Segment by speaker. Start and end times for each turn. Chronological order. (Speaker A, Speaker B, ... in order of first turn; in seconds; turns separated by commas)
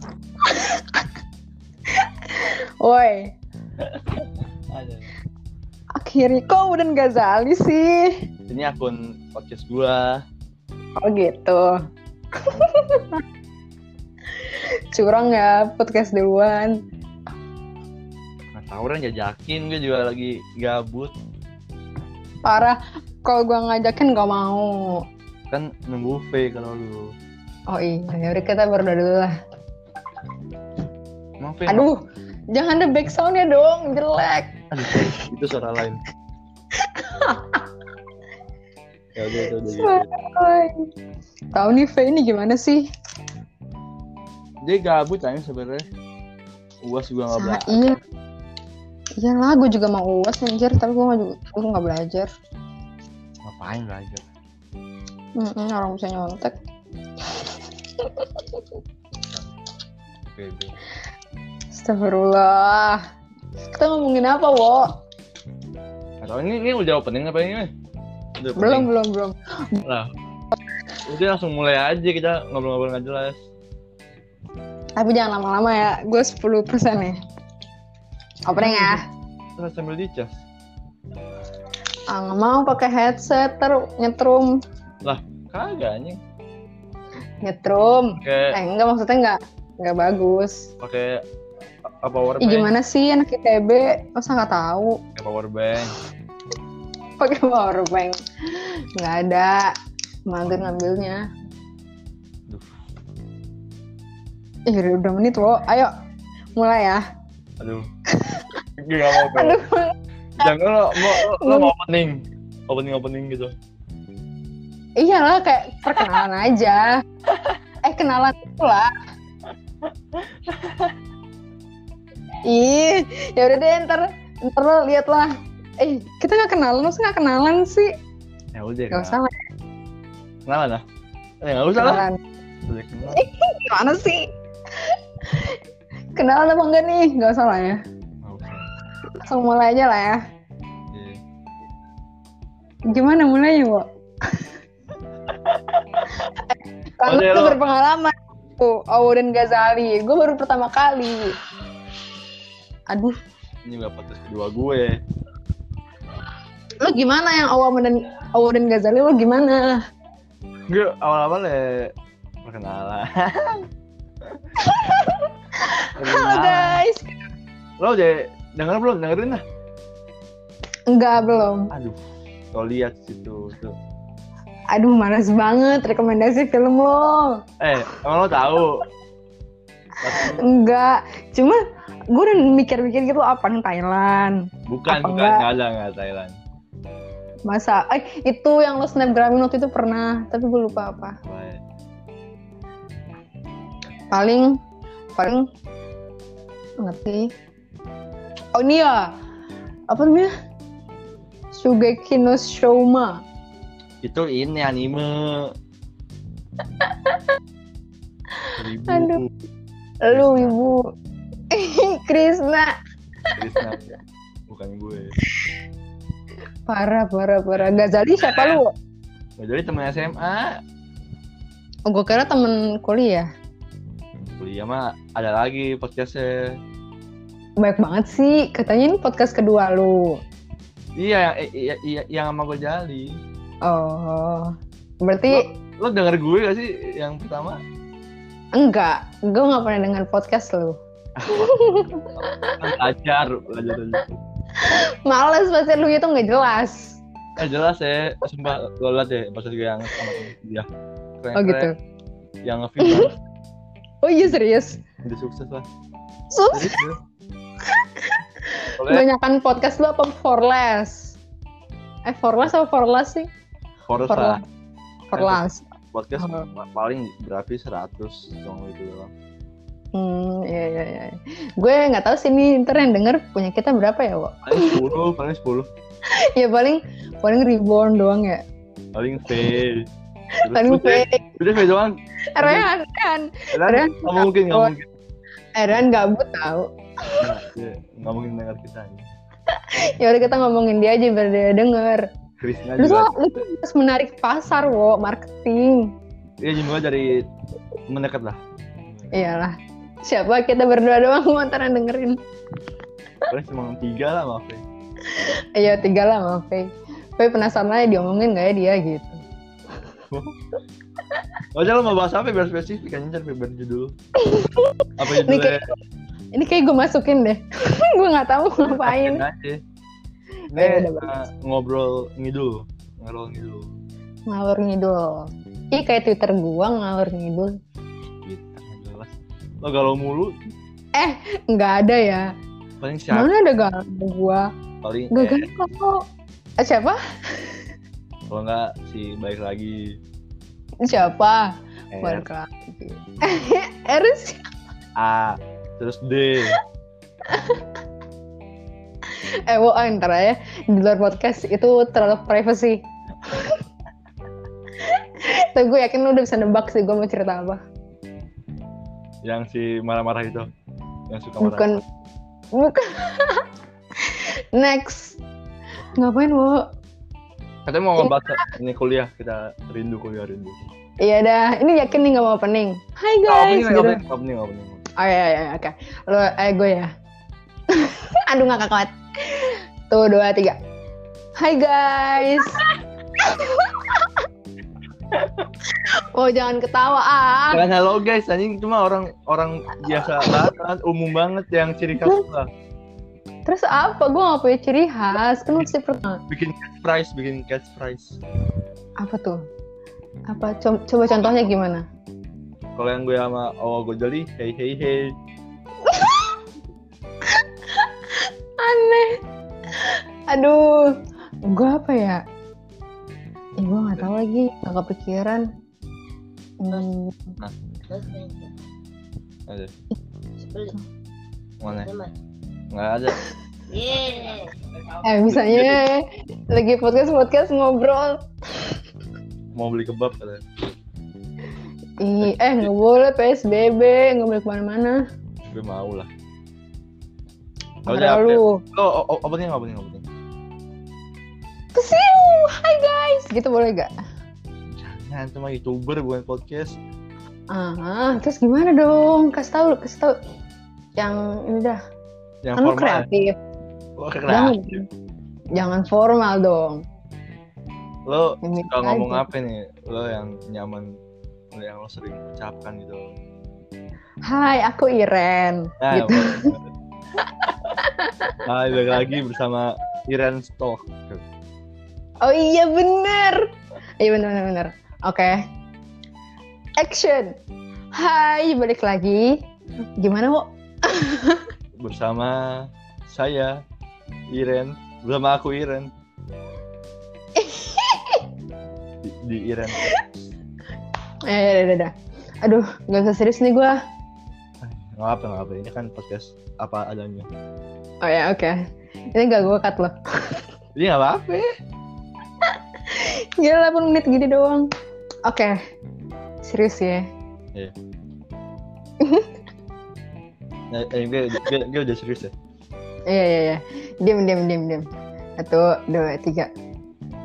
Speaker A: 0.4-0.8, Speaker A: 1.9-3.3, Speaker B: 3.8-5.1, Speaker A: 6.0-8.2, Speaker B: 8.5-10.2, Speaker A: 11.0-11.8, Speaker A: 12.4-13.2, Speaker A: 14.5-16.8, Speaker B: 18.5-21.1, Speaker A: 22.4-25.0, Speaker B: 25.5-27.1, Speaker A: 27.7-29.3, Speaker B: 31.4-31.9, Speaker A: 31.7-34.5, Speaker B: 34.7-36.0, Speaker A: 36.8-37.6, Speaker B: 39.1-40.0, Speaker A: 39.6-40.9, Speaker A: 41.5-42.9, Speaker B: 44.6-45.8, Speaker B: 46.8-48.0, Speaker A: 47.3-48.0, Speaker A: 49.2-52.3, Speaker B: 53.4-54.2, Speaker A: 55.4-56.6, Speaker A: 57.3-58.4, Speaker B: 60.2-60.7, Speaker A: 61.7-63.0, Speaker A: 63.7-64.9, Speaker B: 66.2-67.7, Speaker B: 68.4-68.9, Speaker A: 68.5-69.4, Speaker B: 69.8-70.1, Speaker B: 71.0-73.4, Speaker A: 75.0-77.2, Speaker A: 78.5-79.0, Speaker B: 78.5-79.0, Speaker B: 79.6-80.3, Speaker A: 82.1-84.5, Speaker B: 85.0-86.2, Speaker A: 87.4-90.7, Speaker B: 88.2-88.6, Speaker B: 90.8-91.2, Speaker B: 91.9-92.7, Speaker A: 92.4-95.0, Speaker B: 95.2-96.0, Speaker A: 97.2-99.7, Speaker A: 100.3-101.2, Speaker B: 100.5-100.9, Speaker A: 104.7-105.9, Speaker A: 106.5-107.0, Speaker B: 107.6-107.9, Speaker A: 108.1-108.5, Speaker B: 108.8-109.6, Speaker A: 109.1-111.7, Speaker B: 110.4-113.5, Speaker A: 115.0-117.0, Speaker B: 117.3-117.6, Speaker A: 117.8-118.9, Speaker B: 120.1-121.0, Speaker A: 122.5-127.9, Speaker B: 128.5-129.2, Speaker A: 128.9-129.4, Speaker B: 130.4-130.8, Speaker B: 131.4-132.0, Speaker A: 131.7-132.2, Speaker B: 132.6-133.2, Speaker A: 133.1-134.3, Speaker A: 134.8-135.6, Speaker A: 136.2-137.8, Speaker B: 138.2-138.7, Speaker A: 139.2-140.2, Speaker B: 140.9-141.2, Speaker A: 142.9-144.4, Speaker B: 145.3-146.0, Speaker A: 146.3-151.3, Speaker B: 147.0-147.6, Speaker A: 152.9-153.2, Speaker B: 153.6-155.0, Speaker A: 156.8-159.8, Speaker B: 160.7-163.7, Speaker B: 164.2-164.7, Speaker A: 164.6-167.2, Speaker B: 166.0-166.8, Speaker B: 167.8-169.4, Speaker A: 170.9-171.7, Speaker B: 171.7-172.0, Speaker B: 172.5-173.8, Speaker A: 174.7-178.0, Speaker B: 177.6-178.8, Speaker B: 180.0-180.4, Speaker A: 180.1-181.6, Speaker A: 182.1-185.5, Speaker B: 184.7-186.4, Speaker A: 187.5-191.2, Speaker B: 191.2-191.6, Speaker A: 194.1-194.6, Speaker A: 195.2-195.5, Speaker A: 196.8-197.3, Speaker A: 198.5-199.1, Speaker A: 199.9-200.3, Speaker A: 201.5-203.2, Speaker B: 204.0-205.5, Speaker A: 206.8-207.2, Speaker A: 208.4-209.2, Speaker B: 208.6-209.3, Speaker A: 210.0-210.9, Speaker B: 210.1-210.6, Speaker A: 211.5-212.7, Speaker B: 213.3-213.9, Speaker B: 214.5-215.1, Speaker A: 216.7-218.7, Speaker B: 218.2-218.6, Speaker B: 219.4-220.6, Speaker A: 221.9-223.3, Speaker B: 224.2-226.6, Speaker A: 227.6-230.2, Speaker B: 231.0-233.2, Speaker A: 233.6-235.5, Speaker B: 235.3-237.6, Speaker A: 238.6-242.7, Speaker B: 241.2-241.7, Speaker B: 242.6-244.2, Speaker A: 244.6-247.0, Speaker B: 247.4-250.7, Speaker B: 251.2-251.7, Speaker A: 251.3-251.7, Speaker B: 252.4-253.2, Speaker A: 252.8-253.1, Speaker A: 254.0-254.8, Speaker B: 255.0-255.7, Speaker A: 256.3-256.8, Speaker B: 256.5-257.0, Speaker A: 257.6-261.2, Speaker B: 258.8-259.1, Speaker A: 262.1-263.3, Speaker B: 263.9-264.4, Speaker A: 264.0-264.4, Speaker A: 265.1-265.6, Speaker B: 265.1-269.1, Speaker A: 266.2-266.5, Speaker A: 269.9-274.8, Speaker B: 274.4-275.7, Speaker A: 276.1-278.4, Speaker B: 278.9-282.7, Speaker A: 280.3-281.3, Speaker A: 282.3-284.7, Speaker B: 283.5-284.9, Speaker A: 285.6-287.3, Speaker B: 287.2-289.1, Speaker A: 289.5-292.1, Speaker B: 292.4-293.2, Speaker A: 292.8-295.9, Speaker B: 296.4-297.3, Speaker B: 297.9-299.1, Speaker A: 299.1-302.2, Speaker B: 303.3-304.6, Speaker A: 305.1-309.2, Speaker B: 310.1-310.4, Speaker B: 311.5-313.9, Speaker A: 314.2-315.7, Speaker B: 315.0-315.6, Speaker A: 316.3-319.2, Speaker B: 318.6-319.6, Speaker A: 320.5-321.2, Speaker B: 320.5-323.7, Speaker A: 324.3-327.5, Speaker B: 328.2-330.5, Speaker A: 330.9-332.3, Speaker B: 332.8-333.3, Speaker A: 333.1-334.5, Speaker B: 334.8-335.5, Speaker A: 335.1-336.0, Speaker A: 336.6-337.5, Speaker B: 338.3-340.0, Speaker A: 340.8-344.4, Speaker B: 341.9-342.2, Speaker B: 344.9-346.6, Speaker A: 347.3-347.6, Speaker A: 349.1-353.6, Speaker A: 354.8-357.6, Speaker B: 359.2-360.5, Speaker B: 361.1-361.8, Speaker A: 361.4-361.8, Speaker A: 362.5-363.4, Speaker A: 364.0-365.2, Speaker A: 365.9-366.6, Speaker B: 367.6-370.6, Speaker A: 368.0-368.5, Speaker A: 371.0-374.0, Speaker B: 373.2-374.8, Speaker A: 375.0-376.9, Speaker A: 377.7-380.6, Speaker A: 381.4-382.6, Speaker A: 383.2-384.2, Speaker B: 385.1-385.5, Speaker A: 385.7-387.6, Speaker B: 387.5-392.5, Speaker A: 389.9-390.4, Speaker A: 392.0-392.2, Speaker A: 393.4-396.2, Speaker B: 396.3-398.2, Speaker A: 399.0-399.4, Speaker A: 400.3-401.8, Speaker B: 402.8-405.1, Speaker A: 405.9-406.4, Speaker A: 407.3-409.2, Speaker A: 409.7-410.9, Speaker A: 411.5-412.2, Speaker A: 413.6-415.5, Speaker A: 416.6-417.4, Speaker C: 417.9-418.6, Speaker C: 420.4-420.8, Speaker B: 421.6-421.9, Speaker C: 421.7-422.1, Speaker B: 422.7-423.2, Speaker C: 423.7-424.5, Speaker A: 425.0-428.6, Speaker B: 425.2-425.8, Speaker B: 429.5-430.4, Speaker A: 432.0-435.0, Speaker B: 432.2-432.7, Speaker B: 435.4-436.1, Speaker A: 437.9-438.6, Speaker B: 437.9-440.1, Speaker A: 441.7-443.9, Speaker B: 444.7-446.8, Speaker A: 447.5-450.1, Speaker A: 451.0-451.8, Speaker B: 452.4-453.1, Speaker A: 452.5-453.3, Speaker B: 454.0-454.6, Speaker A: 454.3-454.9, Speaker A: 455.5-456.8, Speaker B: 458.1-461.0, Speaker A: 458.4-459.2, Speaker B: 461.5-463.1, Speaker A: 464.2-466.5, Speaker B: 465.8-466.6, Speaker A: 467.7-468.4, Speaker B: 468.4-471.2, Speaker A: 472.2-473.5, Speaker A: 474.0-475.4, Speaker A: 476.8-477.3, Speaker A: 477.9-479.4, Speaker A: 480.0-481.5, Speaker B: 481.8-483.6, Speaker B: 484.3-485.9, Speaker A: 487.4-488.2, Speaker B: 489.0-489.9, Speaker A: 491.3-493.8, Speaker B: 494.6-497.3, Speaker A: 498.0-498.6, Speaker A: 499.1-500.4, Speaker B: 500.7-501.4, Speaker A: 502.4-504.7, Speaker A: 505.2-505.6, Speaker A: 506.4-507.1, Speaker A: 509.0-509.3, Speaker B: 510.7-512.3, Speaker A: 513.1-514.9, Speaker A: 515.4-516.5